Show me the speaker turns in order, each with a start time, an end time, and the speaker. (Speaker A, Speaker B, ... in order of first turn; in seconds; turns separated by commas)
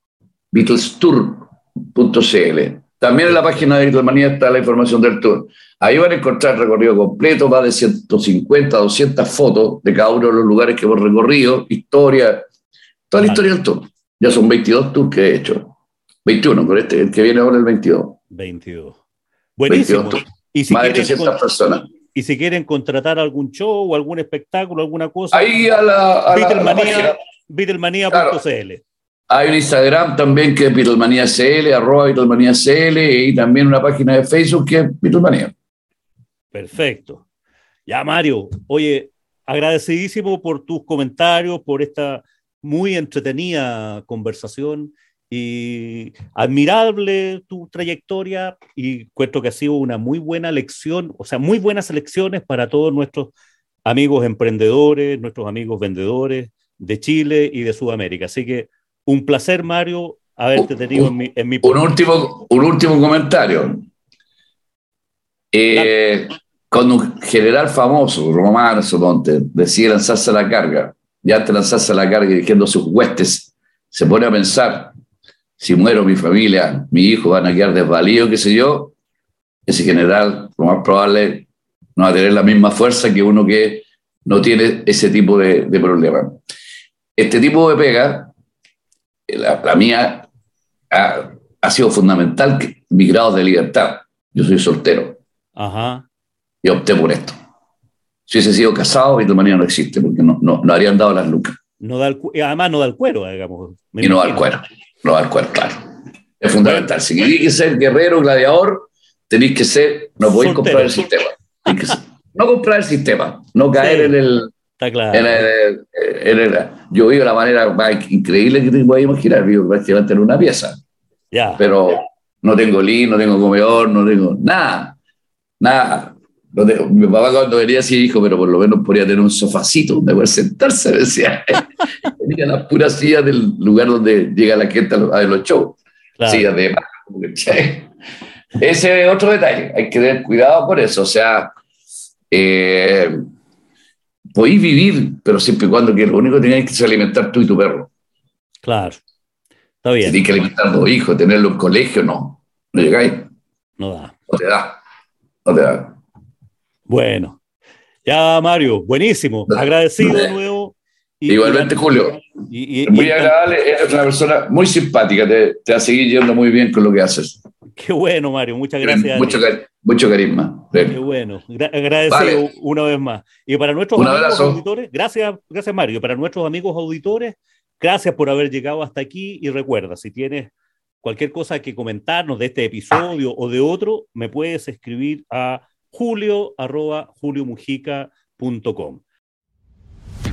Speaker A: 0.5-12.4, Speaker B: 3.3-3.6, Speaker A: 13.1-18.2, Speaker B: 13.2-13.5, Speaker B: 18.3-19.0, Speaker B: 19.6-21.4, Speaker A: 19.7-21.9, Speaker B: 22.1-25.6, Speaker A: 25.3-27.2, Speaker B: 26.3-28.8, Speaker A: 28.1-28.4, Speaker A: 29.3-35.5, Speaker B: 36.5-37.2, Speaker B: 37.9-53.3, Speaker B: 53.9-61.9, Speaker A: 60.6-61.1, Speaker A: 61.6-63.9, Speaker A: 65.5-74.9, Speaker A: 75.6-78.9, Speaker A: 79.7-86.4, Speaker A: 87.2-88.3, Speaker A: 89.3-90.3, Speaker A: 90.9-95.2, Speaker B: 95.5-96.0, Speaker A: 96.6-97.4, Speaker A: 98.3-101.6, Speaker B: 101.8-104.5, Speaker A: 104.0-105.9, Speaker A: 106.4-114.5, Speaker B: 110.2-111.0, Speaker B: 113.8-114.1, Speaker B: 114.8-115.5, Speaker A: 115.1-120.8, Speaker B: 121.3-121.6, Speaker A: 121.6-125.0, Speaker A: 125.6-137.9, Speaker B: 136.2-136.5, Speaker A: 138.6-141.5, Speaker A: 142.3-143.2, Speaker A: 144.3-147.9, Speaker B: 148.6-149.0, Speaker B: 149.8-150.2, Speaker A: 150.0-153.3, Speaker B: 153.8-154.2, Speaker A: 154.3-154.8, Speaker A: 155.4-156.0, Speaker B: 156.9-157.4, Speaker B: 158.1-161.9, Speaker A: 159.5-160.3, Speaker A: 161.3-162.2, Speaker B: 162.5-163.4, Speaker A: 162.9-167.4, Speaker B: 167.8-169.5, Speaker A: 168.8-171.0, Speaker B: 170.9-180.5, Speaker A: 172.1-172.4, Speaker A: 173.9-174.6, Speaker B: 181.0-189.0